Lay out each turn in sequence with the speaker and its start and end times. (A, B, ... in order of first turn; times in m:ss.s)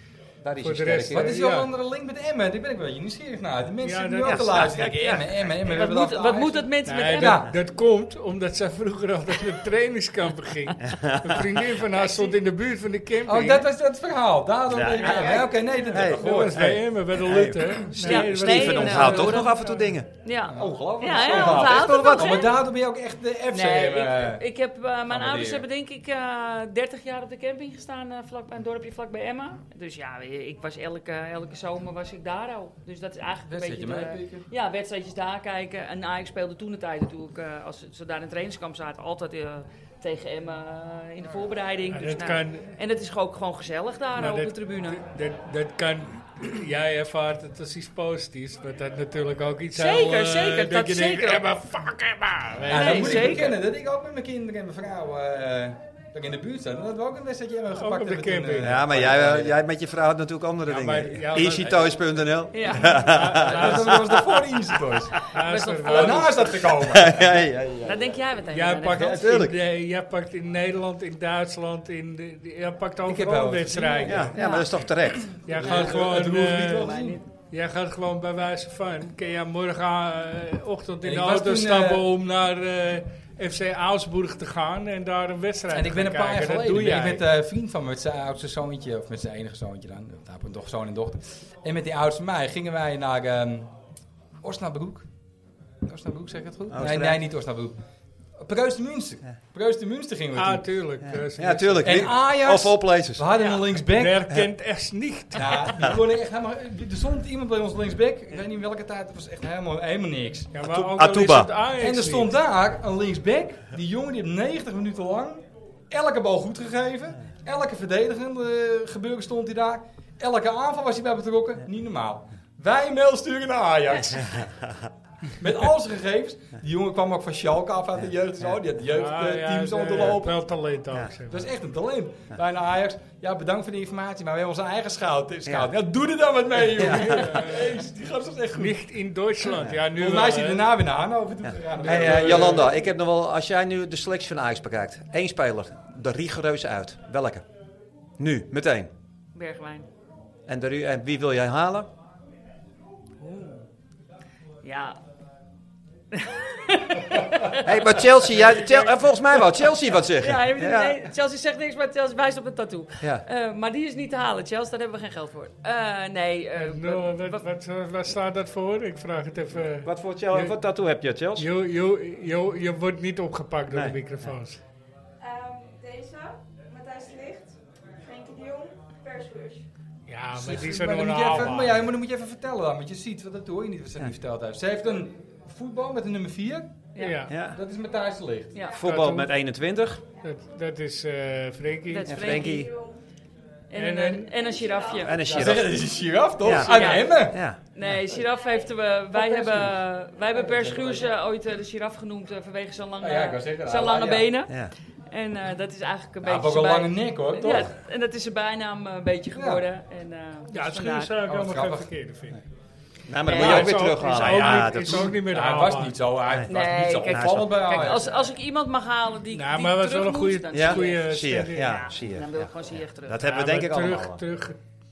0:00.4-0:01.4 A
0:00.6-0:01.7 B
0:01.1-0:07.5 C
0:03.8-0:04.5 B
0:04.2-0:05.5 A
0:05.7-0:07.4 D
0:06.8-0:13.6 B
0:10.8-0:11.4 A
0:11.9-0:12.3 D
0:13.2-0:16.8 C
0:14.7-0:22.4 A
0:15.6-0:15.9 D
0:16.0-0:19.8 B
0:18.0-0:19.6 D
0:20.2-0:22.6 D
0:20.5-0:24.4 C
0:23.5-0:45.0 D
0:25.1-0:25.6 C
0:33.5-0:34.5 C
0:41.9-0:42.7 B
0:44.2-0:53.5 B
0:49.7-0:51.5 D
0:52.7-0:59.6 C
0:52.7-0:53.5 D
0:57.7-0:58.8 B
0:58.6-1:04.3 A
1:00.7-1:01.9 B
1:02.5-1:03.0 D
1:02.6-1:04.0 B
1:03.3-1:05.2 C
1:05.2-1:06.4 B
1:05.4-1:06.5 D
1:05.8-1:07.4 C
1:06.6-1:08.2 A
1:07.8-1:09.2 D
1:08.5-1:14.4 B
1:08.9-1:09.6 A
1:13.0-1:17.2 C
1:14.0-1:15.8 A
1:14.3-1:14.7 D
1:15.4-1:27.3 B
1:15.6-1:15.9 D
1:16.9-1:17.2 D
1:21.0-1:22.0 C
1:25.7-1:33.7 C
1:34.4-1:35.1 C
1:35.8-1:37.8 C
1:36.7-1:37.2 A
1:38.4-1:40.7 C
1:40.3-1:42.1 B
1:41.0-1:43.2 A
1:41.8-1:44.2 C
1:43.9-1:45.7 B
1:45.4-1:50.5 C
1:50.5-1:52.3 B
1:50.6-1:51.5 A
1:51.8-2:04.4 C
2:05.4-2:10.4 C
2:08.9-2:11.5 B
2:11.3-2:18.8 C
2:15.4-2:15.7 A
2:16.8-2:17.1 A
2:16.8-2:17.7 B
2:18.5-2:20.7 B
2:19.8-2:22.8 C
2:21.4-2:27.4 A
2:28.2-2:28.9 A
2:29.3-2:29.9 D
2:30.5-2:31.9 A
2:34.6-2:35.0 D
2:36.1-2:37.6 D
2:37.6-2:41.1 A
2:40.2-2:47.4 D
2:46.6-2:50.6 B
2:49.8-2:51.4 A
2:51.4-2:54.6 B
2:53.7-2:54.0 A
2:55.2-2:59.6 E
3:00.1-3:01.9 B
3:00.3-3:06.8 C
3:06.9-3:07.3 D
3:07.0-3:07.3 B
3:07.3-3:07.6 A
3:07.4-3:08.6 C
3:08.7-3:10.0 A
3:08.8-3:09.3 B
3:10.2-3:12.3 B
3:11.9-3:12.6 D
3:12.0-3:12.7 A
3:12.4-3:13.0 E
3:13.7-3:15.3 D
3:13.7-3:14.3 B
3:14.3-3:15.3 E
3:15.0-3:17.8 A
3:15.3-3:17.5 C
3:16.5-3:31.1 D
3:18.2-3:18.9 E
3:19.2-3:21.1 C
3:23.0-3:24.4 C
3:24.5-3:24.7 A
3:26.2-3:27.8 C
3:29.3-3:29.6 C
3:30.5-3:32.4 B
3:31.2-3:31.9 C
3:33.1-3:35.1 A
3:33.2-3:36.0 B
3:33.3-3:33.5 D
3:33.3-3:38.3 C
3:36.3-3:36.5 A
3:36.5-3:43.2 D
3:37.1-3:37.6 A
3:39.3-3:41.8 B
3:40.5-3:44.2 A
3:43.2-3:44.6 B